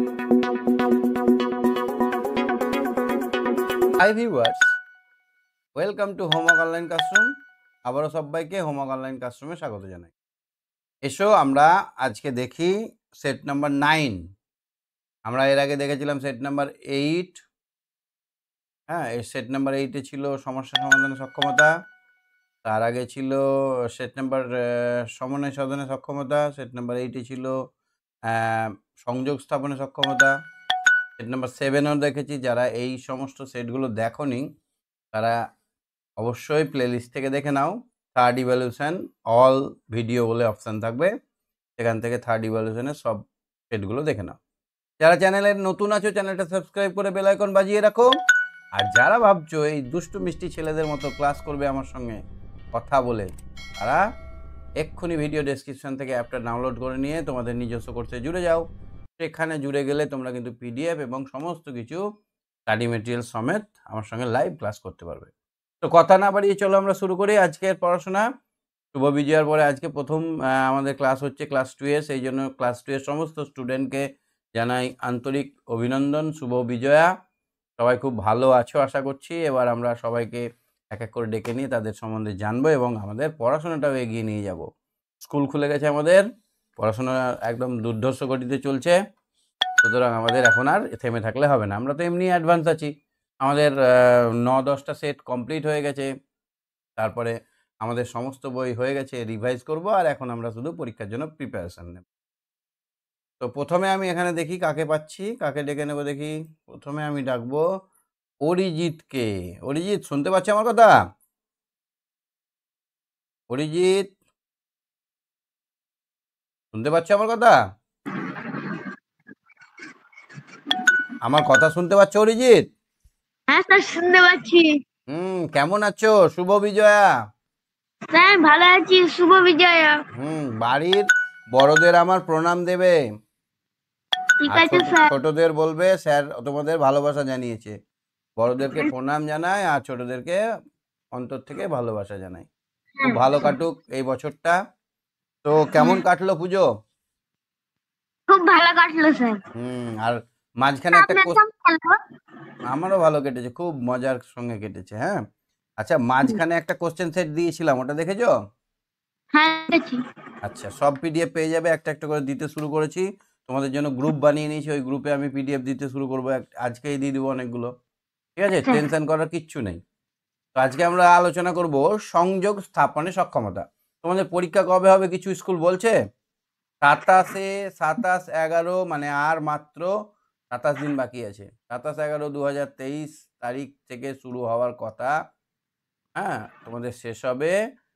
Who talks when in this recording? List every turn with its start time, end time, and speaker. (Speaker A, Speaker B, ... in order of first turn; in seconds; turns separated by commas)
Speaker A: 4.0-4.8, Speaker A: 5.8-7.3, Speaker A: 7.9-10.1, Speaker A: 11.0-14.2, Speaker A: 15.3-17.4, Speaker A: 18.9-21.7, Speaker A: 22.6-23.4, Speaker A: 23.9-27.6, Speaker A: 28.3-30.3, Speaker A: 31.2-34.5, Speaker A: 36.2-41.1, Speaker A: 41.8-44.4, Speaker A: 45.0-48.1, Speaker A: 48.8-52.2, Speaker A: 52.7-54.0, Speaker A: 54.8-58.6, Speaker A: 59.2-62.0, Speaker A: 62.7-65.3, Speaker A: 65.8-68.3, Speaker A: 68.9-74.0, Speaker A: 74.5-77.1, Speaker A: 77.8-84.7, Speaker A: 85.2-86.2, Speaker A: 86.8-89.0, Speaker A: 89.8-96.1, Speaker A: 97.0-102.0, Speaker A: 103.4-107.6, Speaker A: 108.4-110.9, Speaker A: 113.5-114.1, Speaker A: 116.7-117.6, Speaker A: 121.2-122.7, Speaker B: 123.5-124.8, Speaker A: 125.1-127.1, Speaker B: 128.1-130.0, Speaker A: 130.1-132.9, Speaker B: 134.4-135.1, Speaker A: 134.5-137.8, Speaker A: 138.4-140.4, Speaker A: 141.1-142.5, Speaker B: 143.0-143.5, Speaker A: 143.0-144.6, Speaker A: 145.4-146.7, Speaker B: 148.3-149.4, Speaker A: 149.6-151.4, Speaker B: 150.9-152.0, Speaker A: 152.7-155.2, Speaker A: 155.8-158.3, Speaker B: 159.3-160.0, Speaker A: 160.4-167.7, Speaker A: 168.4-169.8, Speaker A: 170.6-175.9, Speaker A: 176.8-179.9, Speaker A: 180.5-185.1, Speaker A: 186.2-187.6